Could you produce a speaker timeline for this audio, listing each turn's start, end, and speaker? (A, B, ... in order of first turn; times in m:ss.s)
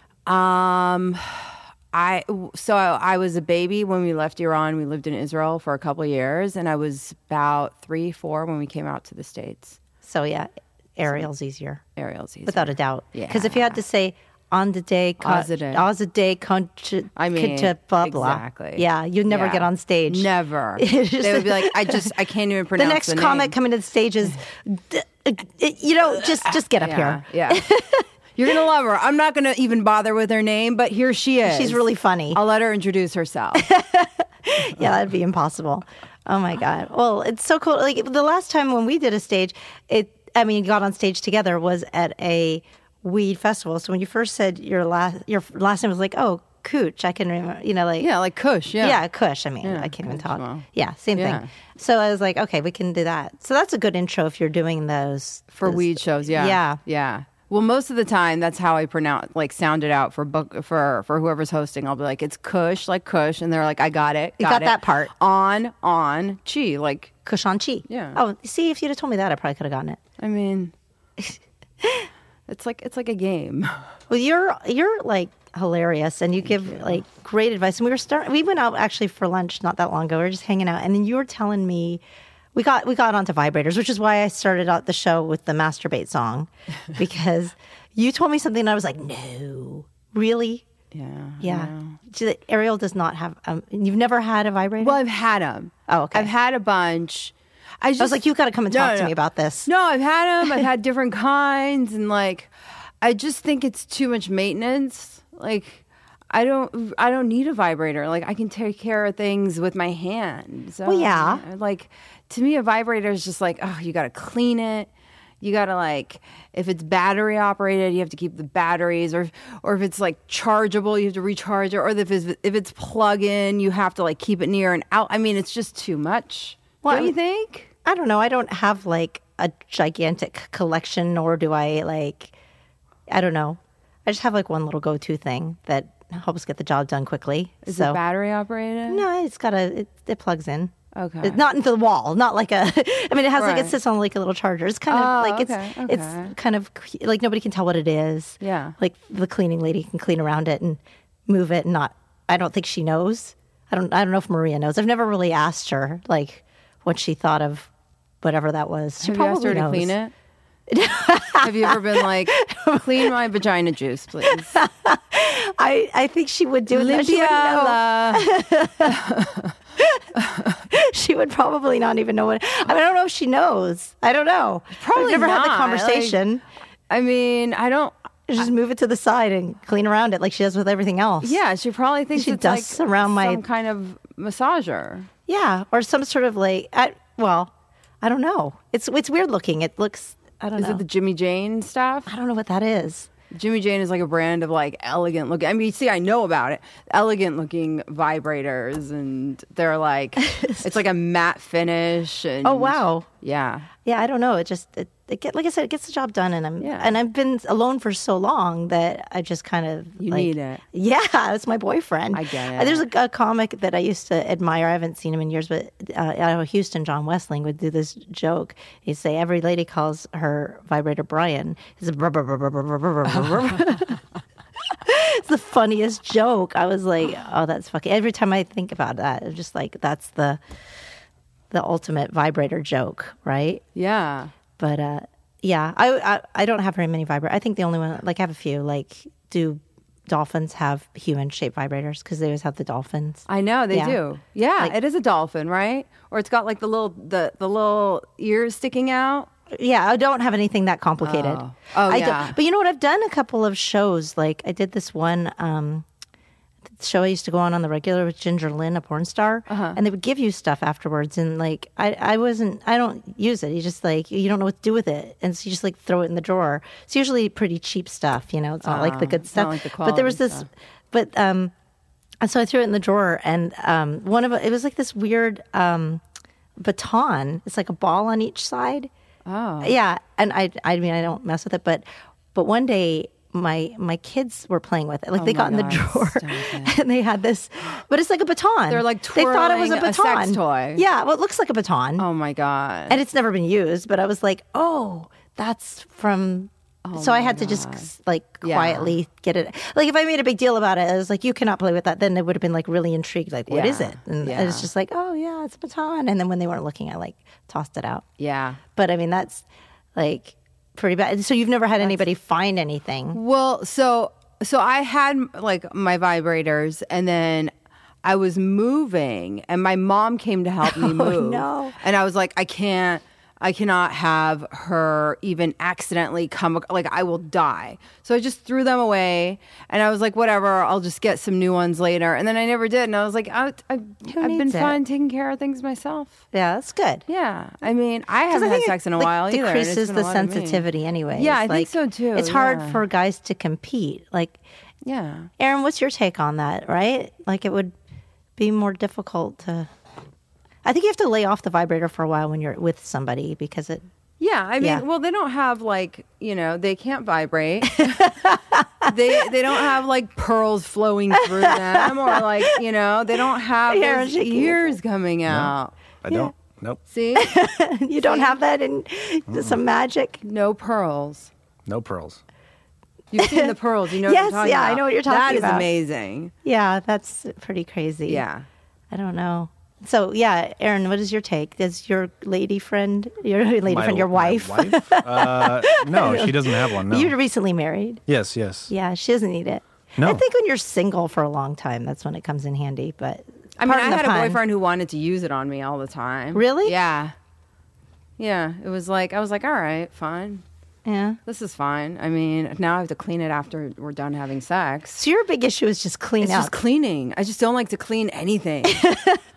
0:00.2-0:09.8 A
0:10.0-0:11.8 B
0:12.0-0:13.8 A
0:12.4-0:22.1 B
0:15.2-0:15.8 A
0:17.2-0:23.6 A
0:22.8-0:28.0 B
0:26.4-0:27.6 A
0:28.3-0:33.7 A
0:31.4-0:32.4 B
0:33.5-0:48.1 B
0:48.0-0:49.0 A
0:48.8-0:56.8 B
0:49.6-0:51.5 A
0:55.5-1:07.1 A
1:04.4-1:05.1 B
1:07.2-1:10.0 B
1:07.9-1:08.2 A
1:10.2-1:10.7 A
1:11.2-1:12.1 B
1:12.5-1:13.8 A
1:14.1-1:22.0 B
1:22.5-1:30.6 B
1:30.9-1:32.0 A
1:31.4-1:35.0 B
1:34.8-1:42.5 A
1:35.9-1:36.3 B
1:38.0-1:39.7 B
1:43.0-1:54.9 A
1:50.8-1:51.4 B
1:55.4-2:07.7 A
2:06.8-2:07.1 B
2:07.8-2:12.3 B
2:13.1-2:18.0 B
2:17.6-2:19.0 A
2:18.9-2:37.7 B
2:20.9-2:21.4 A
2:23.4-2:23.7 A
2:24.9-2:26.3 A
2:28.4-2:28.8 A
2:38.2-2:39.9 B
2:39.0-2:40.1 A
2:40.7-2:43.1 B
2:41.4-2:44.6 A
2:44.3-2:49.0 B
2:46.7-2:48.3 A
2:48.8-2:49.6 A
2:49.8-2:50.0 B
2:50.2-2:50.5 A
2:50.6-2:56.4 B
2:54.7-2:56.2 A
2:56.9-2:57.9 A
2:58.3-3:01.4 B
3:01.2-3:05.1 A
3:02.1-3:03.4 B
3:05.3-3:10.8 B
3:10.6-3:12.1 A
3:12.1-3:13.1 B
3:13.3-3:23.7 A
3:20.2-3:20.6 B
3:22.4-3:23.1 B
3:23.8-3:44.0 B
3:26.6-3:26.9 A
3:30.0-3:30.6 A
3:32.1-3:32.9 A
3:44.7-3:50.4 B
3:51.5-3:53.6 B
3:53.7-3:54.3 A
3:54.6-4:04.0 B
4:03.3-4:09.3 A
4:09.5-4:15.8 B
4:11.0-4:12.4 A
4:16.8-4:31.5 B
4:19.5-4:19.8 A
4:28.6-4:30.5 A
4:32.2-4:36.0 B
4:36.6-4:38.9 B
4:39.2-4:39.8 A
4:39.6-4:52.0 B
4:45.1-4:46.7 A
4:48.7-4:50.8 A
4:52.0-4:53.0 A
4:52.9-5:08.0 B
4:56.8-4:57.9 A
4:58.4-4:58.9 A
5:03.5-5:04.7 A
5:08.2-5:08.6 A
5:08.8-5:13.2 B
5:13.1-5:17.5 A
5:18.0-5:36.2 A
5:20.6-5:21.8 B
5:34.0-5:34.8 B
5:36.3-5:37.0 B
5:37.1-5:42.8 A
5:38.3-5:44.4 B
5:44.8-5:45.3 A
5:45.4-5:47.7 B
5:48.4-5:49.7 B
5:50.6-5:53.8 B
5:54.2-5:58.2 A
5:57.8-5:59.3 B
5:58.8-6:05.7 A
6:01.2-6:02.6 B
6:03.7-6:04.8 B
6:05.3-6:06.8 C
6:06.8-6:07.3 A
6:07.1-6:10.2 B
6:08.0-6:08.4 A
6:09.3-6:09.6 C
6:10.2-6:11.3 A
6:11.7-6:12.2 C
6:13.1-6:16.3 A
6:13.2-6:15.7 B
6:16.4-6:18.2 B
6:18.1-6:18.5 A
6:18.9-6:28.0 B
6:23.6-6:27.1 C
6:28.1-6:28.7 C
6:28.7-6:34.4 B
6:30.0-6:30.2 C
6:33.6-6:37.1 A
6:36.3-6:36.8 B
6:38.2-6:40.4 A
6:40.8-6:41.2 B
6:41.2-6:45.0 A
6:45.0-6:46.5 B
6:46.2-6:48.8 A
6:48.6-6:49.2 B